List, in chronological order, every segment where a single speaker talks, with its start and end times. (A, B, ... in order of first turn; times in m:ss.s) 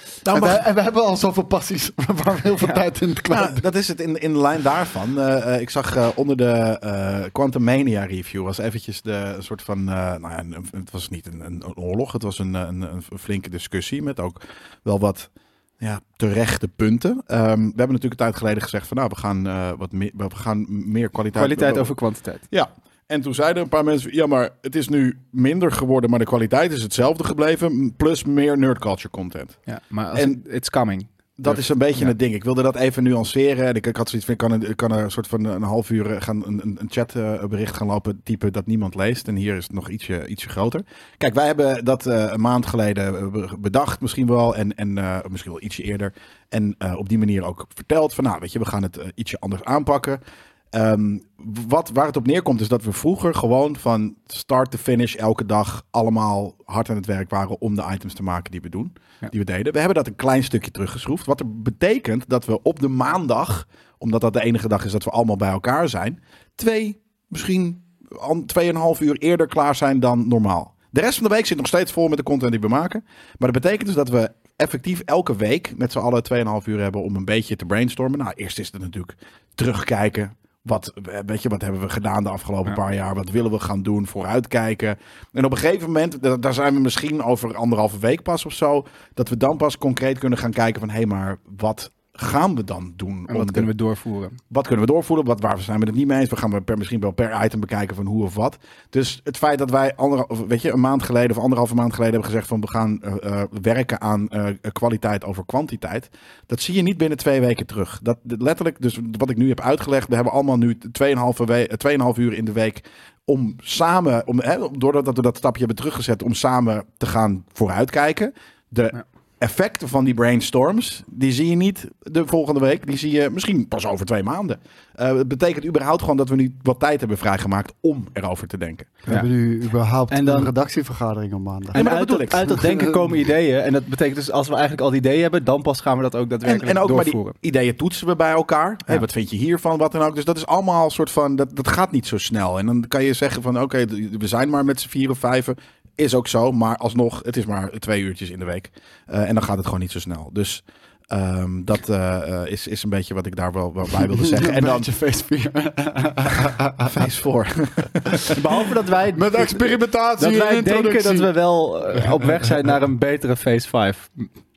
0:00.2-0:00.6 A
0:00.3-0:03.6 B
0:03.3-0:21.9 A
0:21.3-0:22.4 C
0:22.5-0:29.6 A
0:29.7-0:32.1 C
0:30.1-0:30.4 A
0:31.4-0:50.2 A
0:50.7-1:33.7 A
1:33.3-1:34.4 C
1:34.5-2:09.0 A
2:09.1-2:13.1 B
2:10.1-2:10.5 C
2:11.7-2:12.6 A
2:11.7-2:17.4 C
2:16.4-2:34.9 A
2:34.0-2:36.9 B
2:36.8-2:38.4 A
2:38.3-2:44.3 C
2:39.2-2:41.3 B